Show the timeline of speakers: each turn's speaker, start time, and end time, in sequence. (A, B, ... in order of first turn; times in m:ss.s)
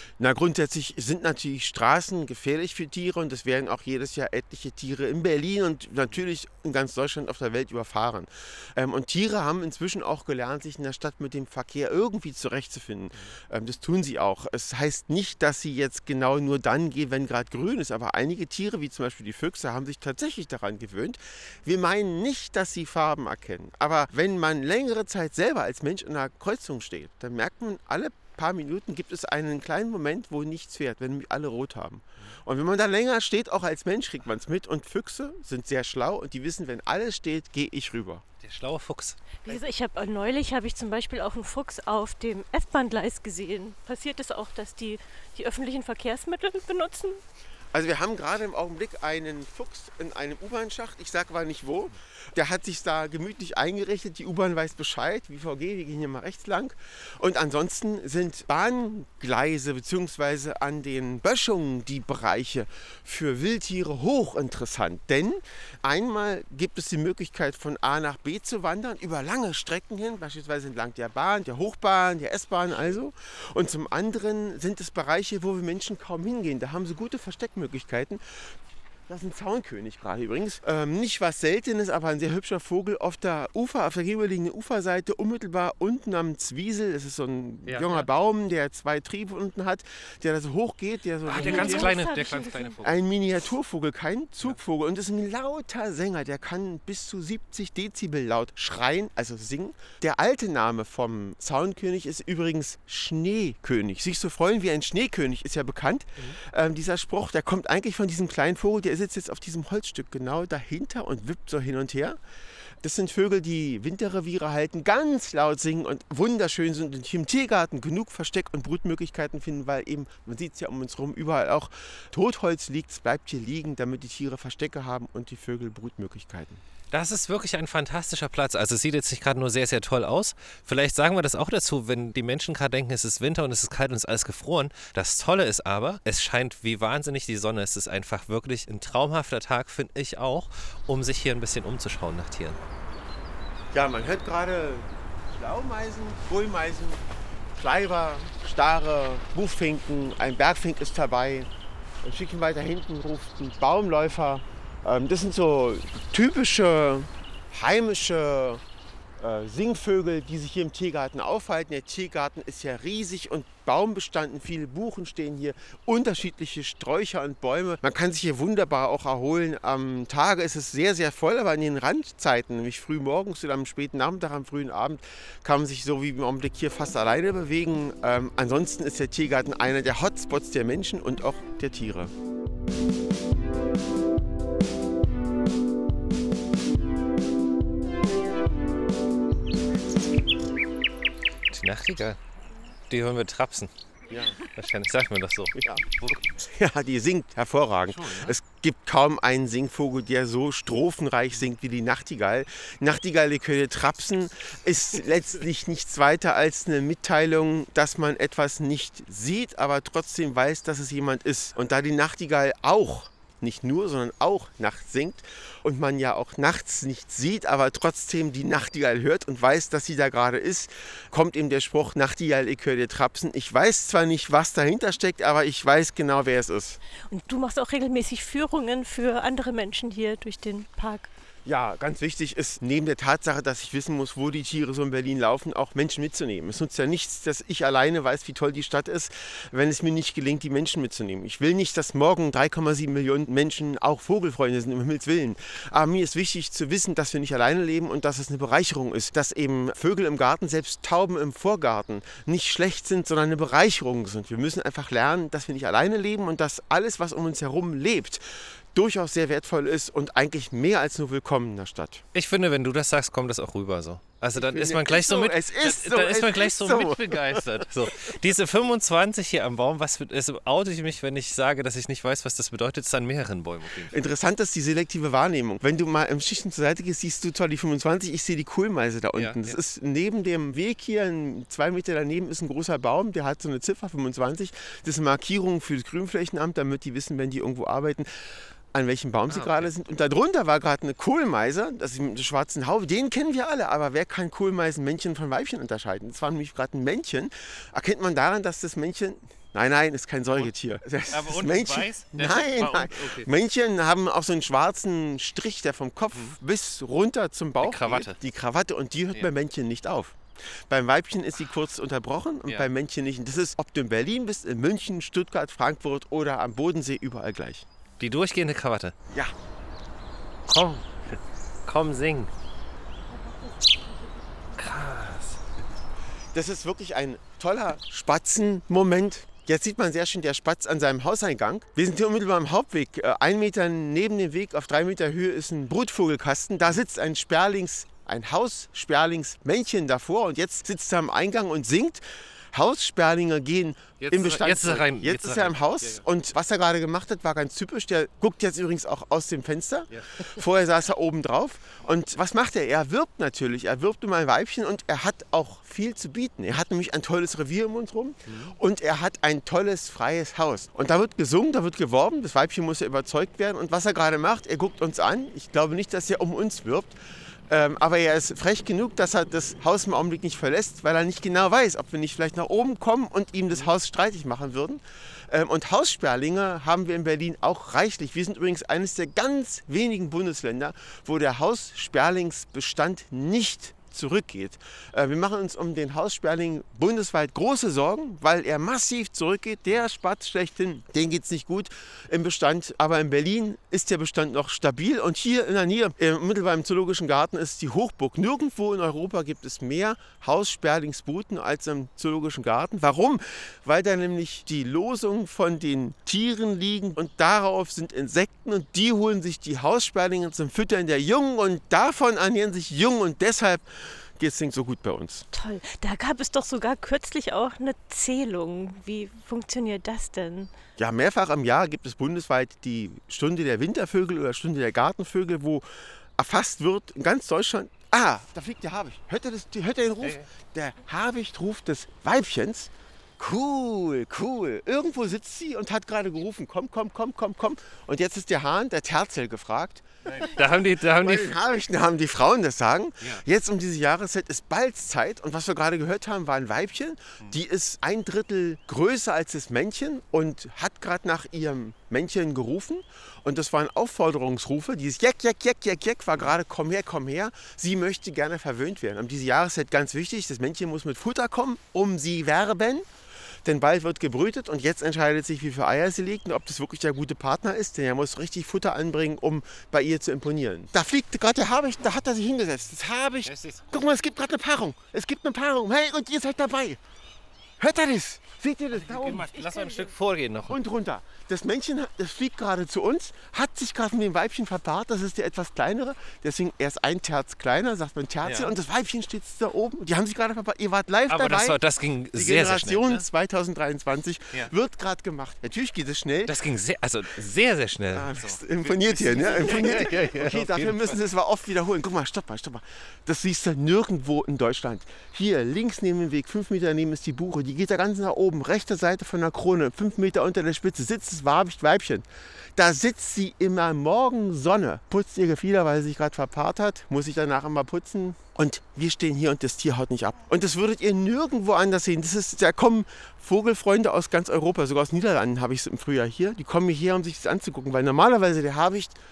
0:00.2-0:38.2 A
0:38.4-0:39.2 B
0:39.4-0:47.2 C
0:47.7-1:18.5 A
1:19.1-1:31.9 A
1:27.7-1:28.1 B
1:31.2-1:33.0 B
1:31.3-1:32.8 C
1:32.8-1:52.2 A
1:52.8-2:06.6 A
2:06.9-2:22.6 B
2:23.7-2:27.0 A
2:27.6-2:31.5 A
2:32.0-2:38.6 A
2:39.2-3:02.1 A
3:11.5-3:12.2 B
3:12.9-3:13.7 B
3:14.1-3:14.4 A
3:14.4-3:16.2 B
3:15.5-3:46.8 A
3:17.9-3:18.3 B
3:47.1-3:51.1 C
3:51.4-4:18.2 A
4:18.7-4:22.0 A
4:22.1-4:34.0 B
4:24.3-4:27.6 A
4:33.9-5:17.7 A
4:39.1-4:39.6 B
4:49.3-4:49.7 B
5:01.1-5:03.3 B
5:07.6-5:08.2 B
5:18.0-5:18.9 B
5:20.5-5:22.3 B
5:24.5-5:25.4 B
5:26.3-6:07.0 A
5:44.0-5:46.0 B
5:49.9-5:50.4 B
5:58.2-5:58.6 B
6:07.5-6:55.2 A
6:55.3-7:00.5 C
7:00.8-7:05.6 A
7:06.2-7:42.8 A
7:10.0-7:10.3 B
7:20.0-7:21.4 B
7:43.4-7:56.8 A
7:53.2-7:53.6 B
7:57.6-7:59.3 A
7:58.7-8:00.6 B
7:59.4-7:59.8 C
8:00.5-8:11.6 A
8:08.2-8:08.5 B
8:11.1-8:13.0 B
8:12.1-8:16.3 A
8:16.2-8:21.0 B
8:17.9-8:49.0 A